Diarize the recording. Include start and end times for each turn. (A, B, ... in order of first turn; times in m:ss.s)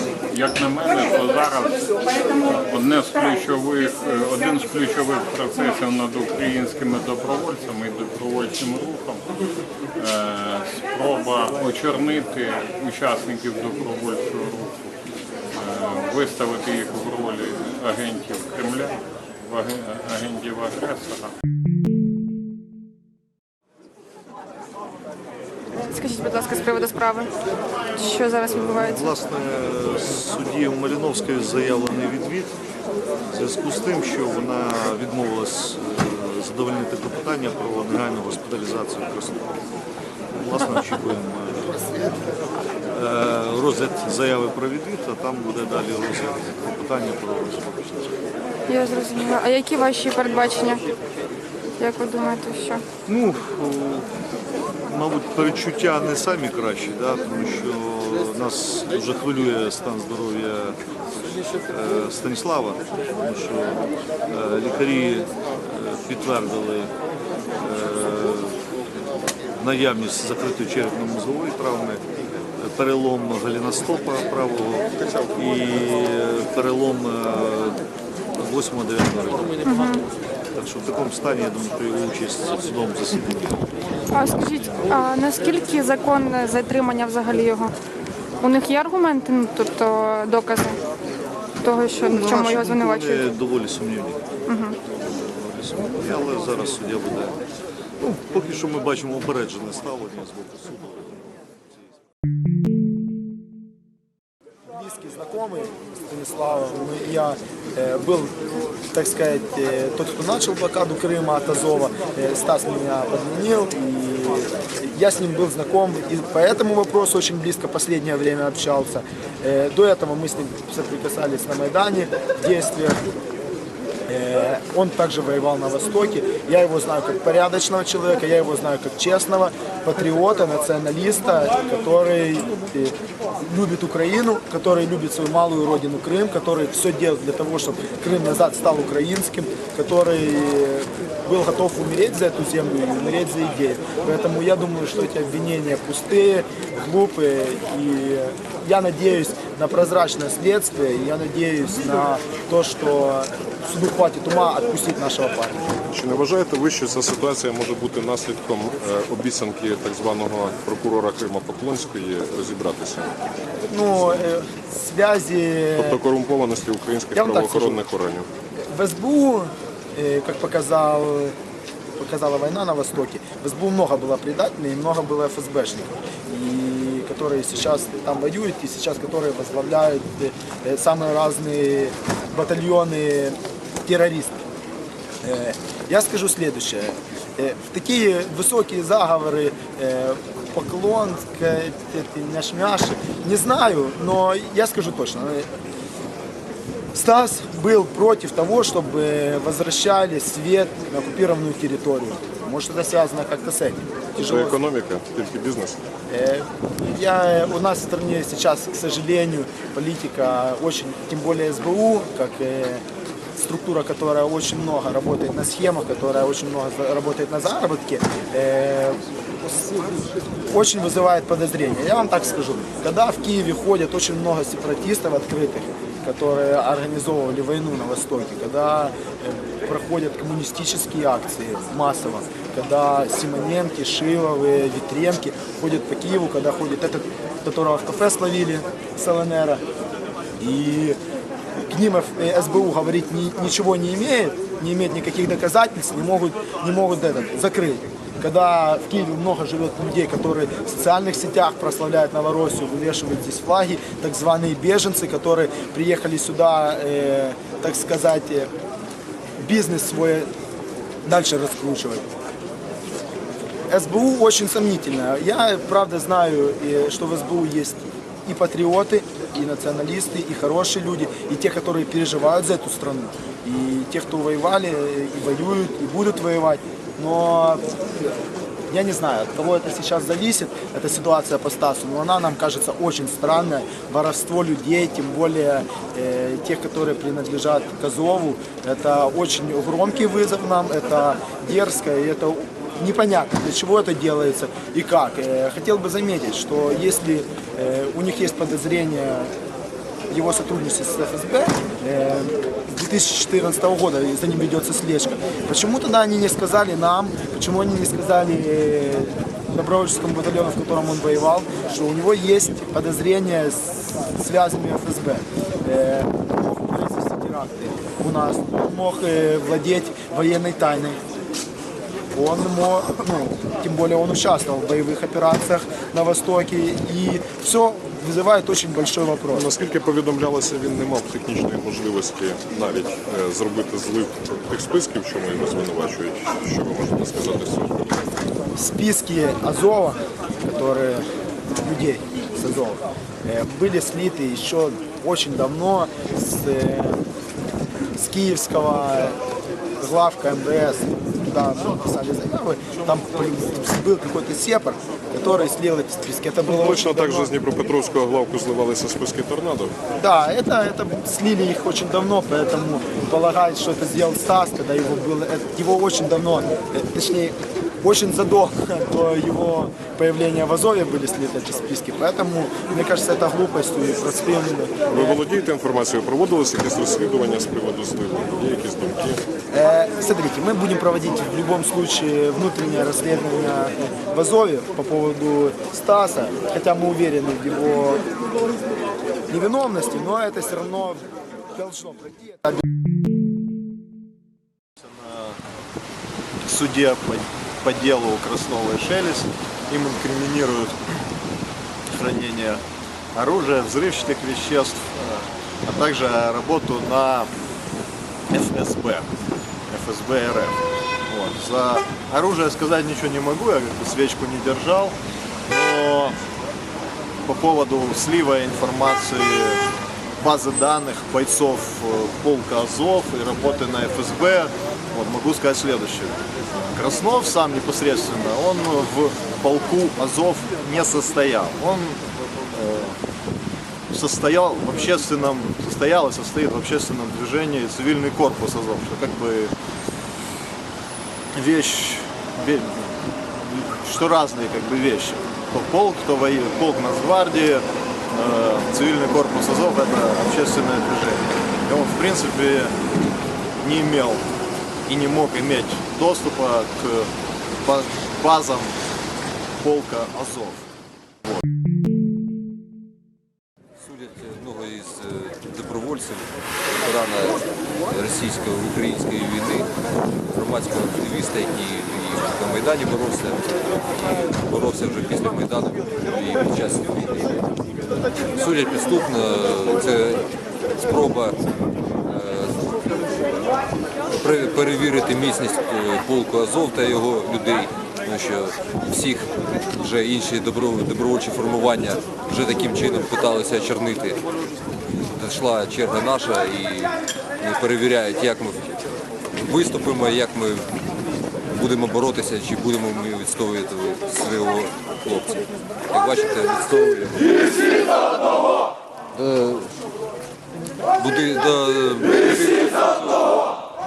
0:00.3-0:09.2 A
0:10.0-0:14.7 A
0:15.6-0:19.0 A
0:19.5-0:21.3 A
0:25.8-0:27.3 B
0:28.0-0:29.1 B
0:28.5-0:32.5 C
0:33.3-0:39.5 C
0:40.3-0:42.0 C
0:42.9-0:48.2 C
0:48.7-0:50.8 B
0:51.8-0:52.8 B
0:53.1-0:54.1 C
0:54.9-1:00.8 C
1:01.7-1:06.9 C
1:07.6-1:08.6 C
1:09.6-1:12.0 C
1:12.6-1:17.8 C
1:18.4-1:19.6 C
1:19.6-1:20.1 B
1:20.6-1:23.8 C
1:24.1-1:27.7 B
1:28.4-1:30.8 B
1:31.6-1:33.3 B
1:32.0-1:34.2 C
1:34.5-1:34.8 B
1:34.9-1:37.4 C
1:38.0-1:41.2 C
1:44.7-2:03.0 D
2:04.1-2:35.6 D
2:35.9-2:43.1 E
2:43.7-2:46.0 D
2:45.8-2:48.3 E
2:47.1-2:47.8 D
2:48.7-2:51.4 D
2:52.0-3:04.4 D
3:05.2-3:15.5 D
3:16.9-3:24.6 D
3:24.2-3:25.8 E
3:26.1-3:32.8 D
3:33.4-3:39.0 D
3:40.5-3:59.6 D
4:00.4-4:01.0 D
4:01.7-4:18.5 D
4:19.4-4:20.3 D
4:21.0-4:22.1 D
4:23.7-4:37.6 D
4:38.7-4:59.3 D
5:00.1-5:21.0 D
5:22.1-5:29.5 D
5:29.3-5:37.9 E
5:38.6-5:41.1 D
5:41.6-5:47.0 D
5:48.0-5:49.2 D
5:49.8-5:57.3 D
5:56.5-5:59.8 E
6:00.0-6:15.2 D
6:14.9-6:19.2 E
6:19.5-6:28.0 D
6:29.3-6:32.6 D
6:34.8-6:35.4 F
6:36.4-6:40.8 F
6:41.9-6:42.6 F
6:43.2-6:47.3 F
6:48.3-6:49.1 F
6:49.7-6:55.0 F
6:55.5-6:56.2 F
6:57.2-6:59.6 F
7:00.2-7:06.2 F
7:06.7-7:13.0 F
7:13.9-7:19.5 F
7:21.3-7:22.9 F
7:23.7-7:32.8 F
7:33.6-7:34.2 F
7:34.9-7:37.1 F
7:37.6-7:38.8 F
7:39.6-7:40.6 F
7:43.8-7:57.3 G
7:58.2-8:01.3 G
8:02.1-8:03.2 G
8:04.1-8:14.2 G
8:14.9-8:20.8 G
8:21.5-8:28.5 G
8:29.1-8:29.8 G
8:31.0-8:33.4 G